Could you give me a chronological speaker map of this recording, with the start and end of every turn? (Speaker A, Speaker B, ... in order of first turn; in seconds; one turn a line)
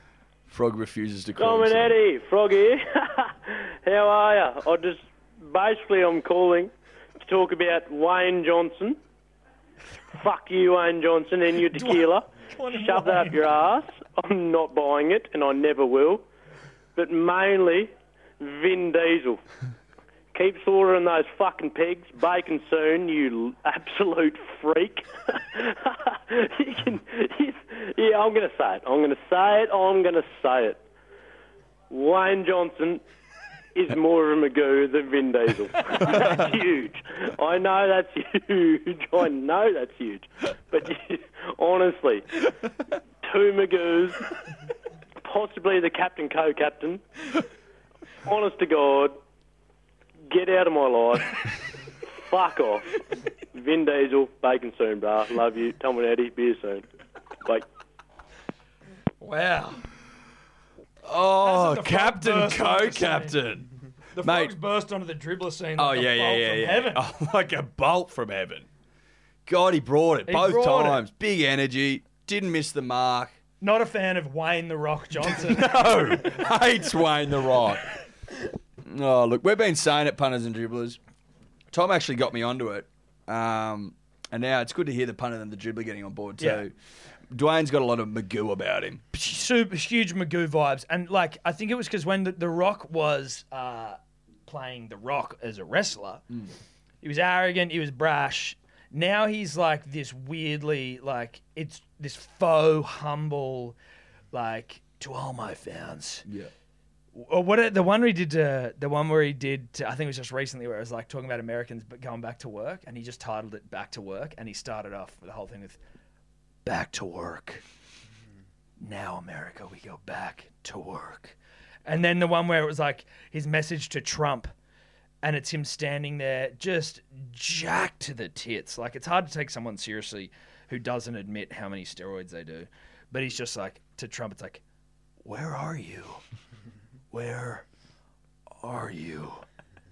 Speaker A: 0.5-2.0
Speaker B: 1.4-9.0
Speaker B: 10.1-16.2
Speaker C: 11.7-13.5
Speaker B: 17.0-19.4
Speaker B: 20.3-30.8
Speaker B: 31.9-33.0
Speaker B: 33.8-42.4
Speaker B: 43.2-44.3
Speaker B: 45.2-47.0
Speaker B: 48.2-49.2
Speaker B: 50.3-51.4
Speaker B: 52.2-53.0
Speaker B: 53.5-56.9
Speaker C: 59.2-59.8
Speaker A: 61.0-63.7
Speaker C: 61.4-63.4
Speaker C: 64.2-67.0
Speaker A: 64.2-64.5
Speaker A: 65.8-68.7
Speaker A: 69.5-73.4
Speaker C: 70.3-71.0
Speaker C: 73.6-76.3
Speaker A: 75.3-77.9
Speaker A: 78.9-81.0
Speaker A: 81.7-86.7
Speaker C: 86.4-86.7
Speaker A: 87.3-89.0
Speaker C: 89.1-96.2
Speaker C: 97.0-103.8
Speaker C: 104.3-106.3
Speaker A: 106.3-106.5
Speaker C: 107.1-115.8
Speaker C: 116.7-117.6
Speaker C: 118.8-124.5
Speaker C: 125.2-134.6
Speaker C: 135.2-136.2
Speaker C: 137.1-137.7
Speaker C: 138.6-139.4